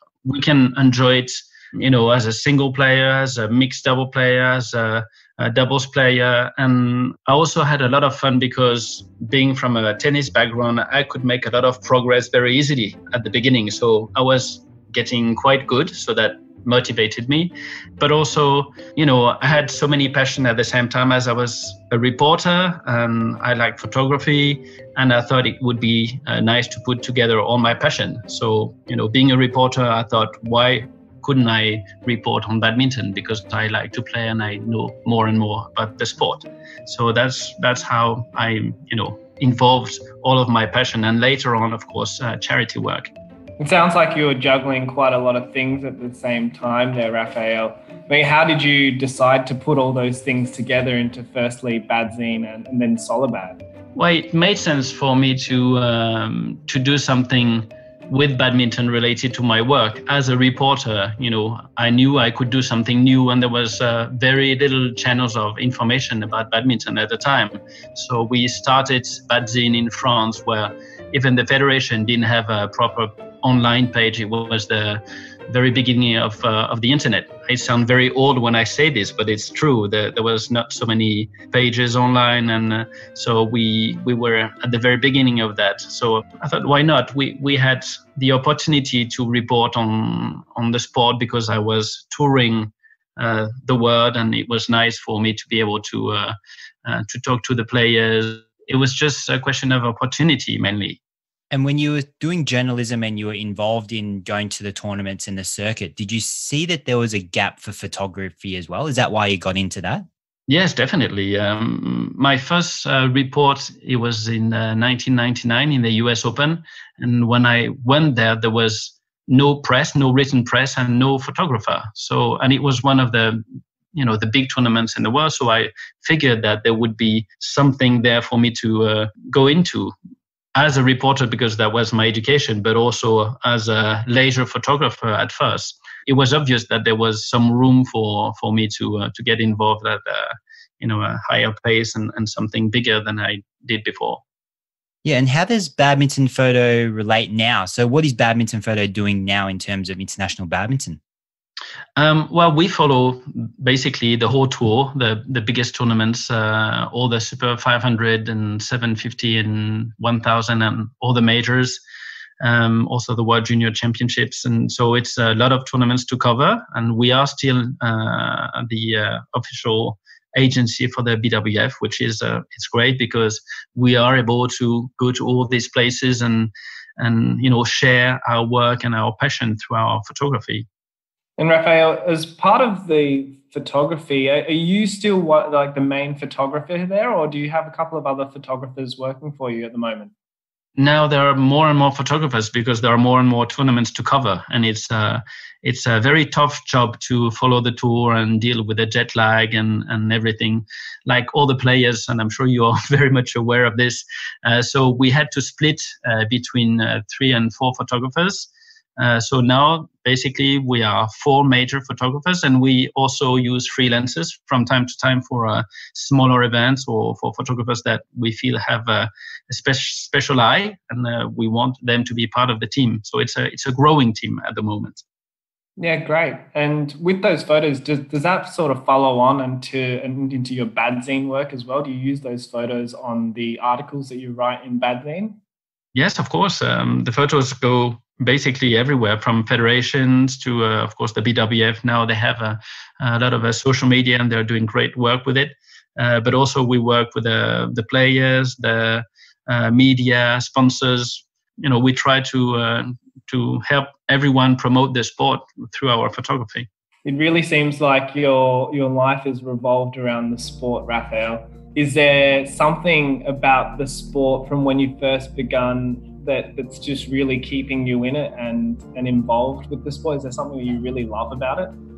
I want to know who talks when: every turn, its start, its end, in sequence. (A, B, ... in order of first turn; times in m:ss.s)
0:00.2-0:43.1 A
0:43.6-0:53.6 B
0:53.9-1:41.0 A
1:41.5-1:50.1 C
1:50.5-2:03.4 A
2:03.9-2:09.9 A
2:10.6-2:24.2 A
2:25.0-2:31.0 C
2:32.0-2:41.8 A
2:42.4-3:00.6 A
3:01.4-3:10.1 B
3:10.8-3:45.0 A
3:45.8-3:55.4 B
3:55.9-4:16.7 A
4:17.0-4:31.7 B